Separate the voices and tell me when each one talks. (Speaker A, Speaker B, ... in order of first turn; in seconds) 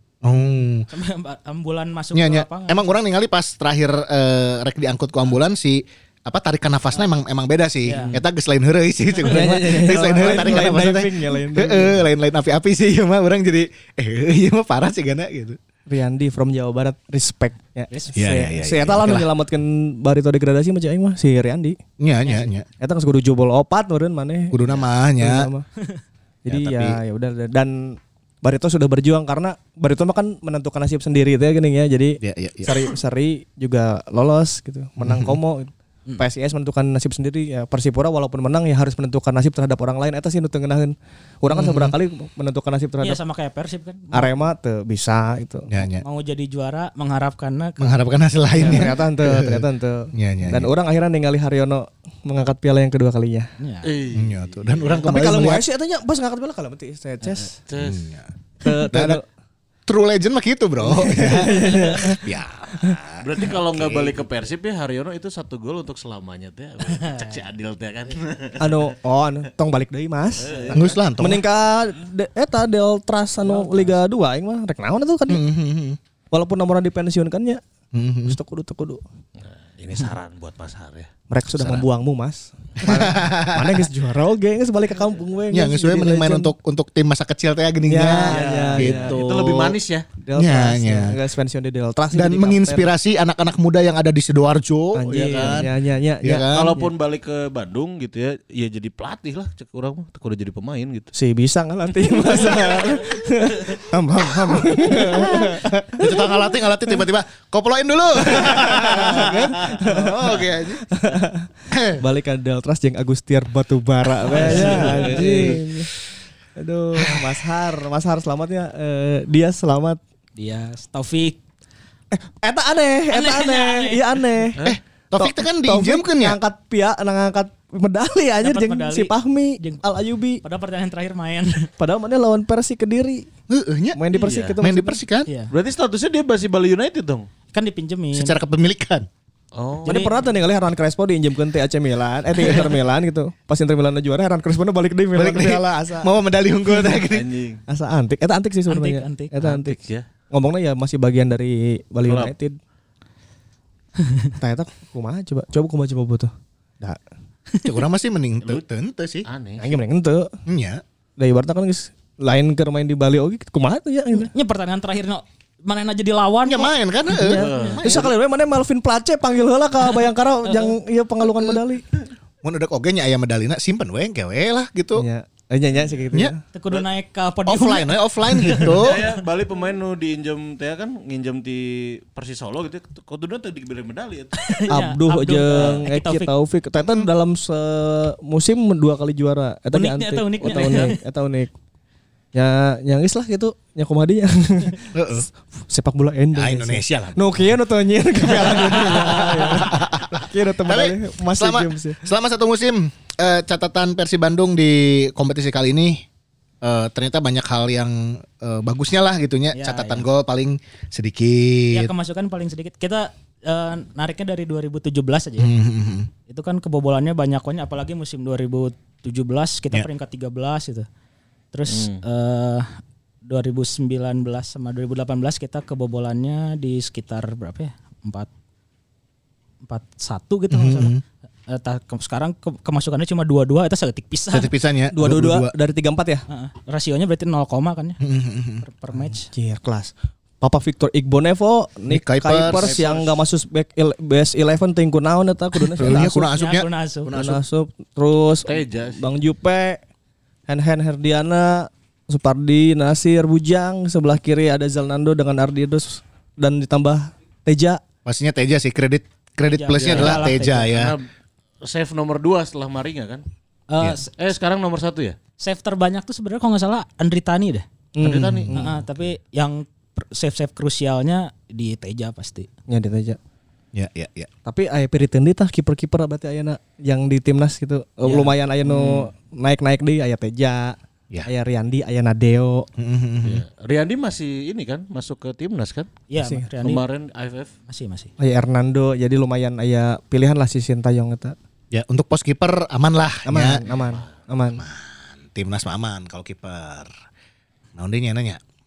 Speaker A: 0.2-0.9, 2.1-15.6, 18.1-19.3, 22.0-22.6, 24.5-25.5, 26.5-27.0, 32.2-32.9, 35.0-35.4, 41.5-41.9, 45.7-46.0, 47.8-50.7, 54.1-55.6, 57.7-58.3, 58.8-59.2, 59.9-64.2, 70.7-71.4, 75.3-76.0, 77.9-78.4, 82.8-83.8, 85.5-89.8, 90.3-91.2, 92.1-95.7, 96.2-96.8, 105.0-110.8, 111.7-112.0, 114.2-115.6, 124.6-126.4, 133.5-134.0, 134.6-135.3, 138.1-139.1, 145.1-147.3, 157.6-159.2, 160.4-160.8, 166.4-168.1, 172.4-175.1, 177.4-179.0, 194.9-195.3, 196.3-197.4, 198.3-206.0, 206.6-211.9, 215.4-216.1, 230.5-231.0, 234.3-235.5, 238.0-238.6, 241.9-242.7, 245.7-247.4, 258.0-261.0, 268.0-268.5, 273.7-274.3, 282.8-283.4, 291.7-293.6, 294.6-296.9, 297.8-298.4
Speaker B: 0.9-2.9, 7.8-8.2, 10.2-10.5, 17.9-18.3, 43.0-44.5, 46.0-48.0, 48.6-48.8, 53.6-53.9, 73.4-74.0, 120.4-121.4, 123.1-124.1, 128.4-129.8, 130.4-131.7, 135.2-135.5, 137.5-138.4, 139.8-140.1, 148.7-149.3, 154.0-154.3, 164.1-166.7, 167.4-167.8, 170.4-170.7, 176.5-178.9, 184.3-186.3, 189.7-191.0, 209.5-210.1, 211.7-215.5, 216.3-220.9, 221.5-222.7, 223.2-228.3, 229.7-231.0, 231.5-234.5, 236.3-238.0, 238.6-239.3, 245.9-247.1, 259.4-260.7, 263.7-264.1, 265.4-267.6, 268.5-272.5, 278.0-278.3, 286.1-286.8, 287.7-288.1
Speaker C: 9.2-12.0, 15.9-21.8, 22.8-24.6, 25.2-25.6, 26.4-43.2, 44.1-45.7, 48.5-53.5, 55.0-57.6, 58.6-59.2, 60.8-63.0, 68.6-75.4, 76.3-77.6, 78.2-79.0, 81.3-86.5, 87.8-89.4, 90.2-92.9, 94.9-96.9, 101.1-107.0, 108.3-115.9, 116.5-120.0, 122.1-124.6, 125.2-130.4, 131.8-133.3, 133.9-135.0, 139.8-146.1, 147.7-149.8, 150.3-152.6, 154.4-157.0, 159.6-160.3, 161.2-164.3, 167.1-171.8, 174.9-176.4, 184.7-191.5, 192.3-202.0, 234.9-236.2, 239.1-246.3, 247.1-249.8, 250.5-257.8, 267.9-268.8, 272.7-273.2, 274.4-282.7, 286.2-286.5, 288.2-291.3, 293.2-294.6
Speaker D: 53.8-55.2, 57.7-58.1, 63.2-68.9, 70.4-71.0, 79.4-81.1, 88.2-90.1, 95.1-95.7, 96.5-101.1, 114.3-115.6, 134.1-134.6, 135.5-137.3, 139.5-140.1, 146.8-147.6, 149.4-150.1, 152.0-152.3, 159.2-159.8, 167.3-167.9, 178.6-184.3, 185.6-185.8, 190.4-190.9, 221.7-222.0, 242.4-243.2, 248.4-249.0, 259.8-261.1, 261.6-263.2, 264.1-265.2, 268.0-268.6, 278.6-279.1, 283.2-285.9, 286.6-287.5